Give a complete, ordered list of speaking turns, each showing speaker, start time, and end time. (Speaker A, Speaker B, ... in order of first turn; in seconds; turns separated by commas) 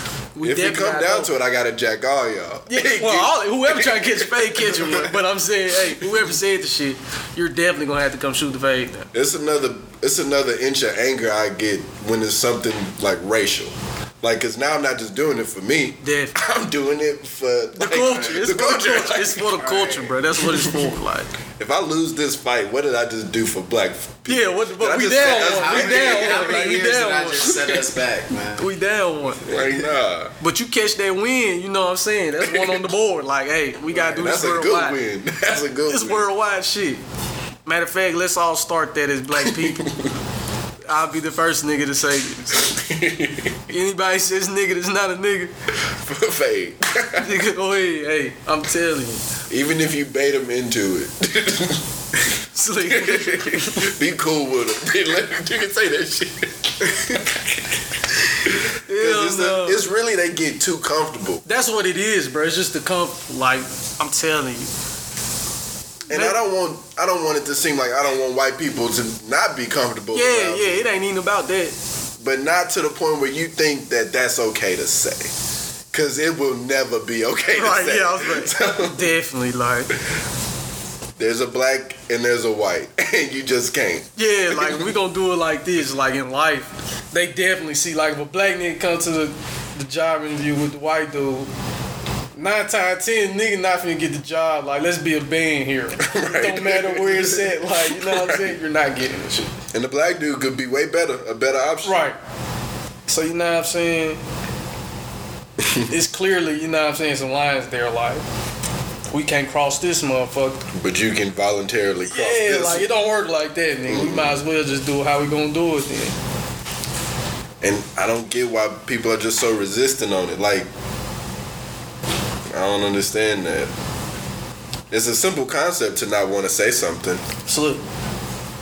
Speaker A: 0.3-1.3, Speaker B: 0.4-5.1, Speaker A: 2.7-9.1, Speaker B: 5.8-6.2, Speaker B: 9.1-19.6, Speaker A: 16.0-16.3, Speaker A: 17.8-21.3, Speaker C: 19.6-20.1, Speaker B: 20.4-20.9, Speaker B: 21.6-26.8, Speaker A: 24.3-27.8, Speaker C: 25.1-28.7, Speaker A: 28.6-29.5, Speaker B: 29.4-30.3, Speaker A: 30.4-35.0, Speaker B: 32.4-32.8, Speaker B: 34.0-36.3, Speaker A: 35.9-37.0, Speaker A: 37.6-39.8, Speaker B: 39.4-40.1, Speaker A: 40.9-42.7, Speaker B: 42.6-43.6, Speaker A: 43.7-45.5, Speaker B: 45.8-47.3, Speaker A: 47.1-49.2, Speaker B: 49.5-51.8, Speaker A: 52.5-53.9, Speaker B: 52.9-57.2, Speaker A: 58.9-59.8, Speaker B: 58.9-61.4, Speaker A: 61.5-64.7, Speaker A: 66.1-66.4, Speaker B: 66.1-70.8, Speaker A: 70.1-71.7, Speaker B: 72.2-75.3, Speaker B: 75.9-79.1, Speaker A: 77.5-79.9, Speaker B: 81.2-84.9, Speaker A: 84.2-91.5, Speaker A: 92.3-99.5, Speaker B: 96.0-98.6, Speaker B: 99.7-102.0, Speaker A: 101.8-102.2, Speaker A: 103.1-104.2, Speaker B: 105.6-105.9, Speaker A: 105.9-108.2, Speaker A: 109.1-110.7, Speaker B: 110.7-112.9, Speaker A: 112.1-116.1, Speaker B: 113.9-114.4, Speaker B: 117.6-120.7, Speaker B: 122.5-123.7, Speaker B: 124.9-127.2, Speaker A: 127.5-127.8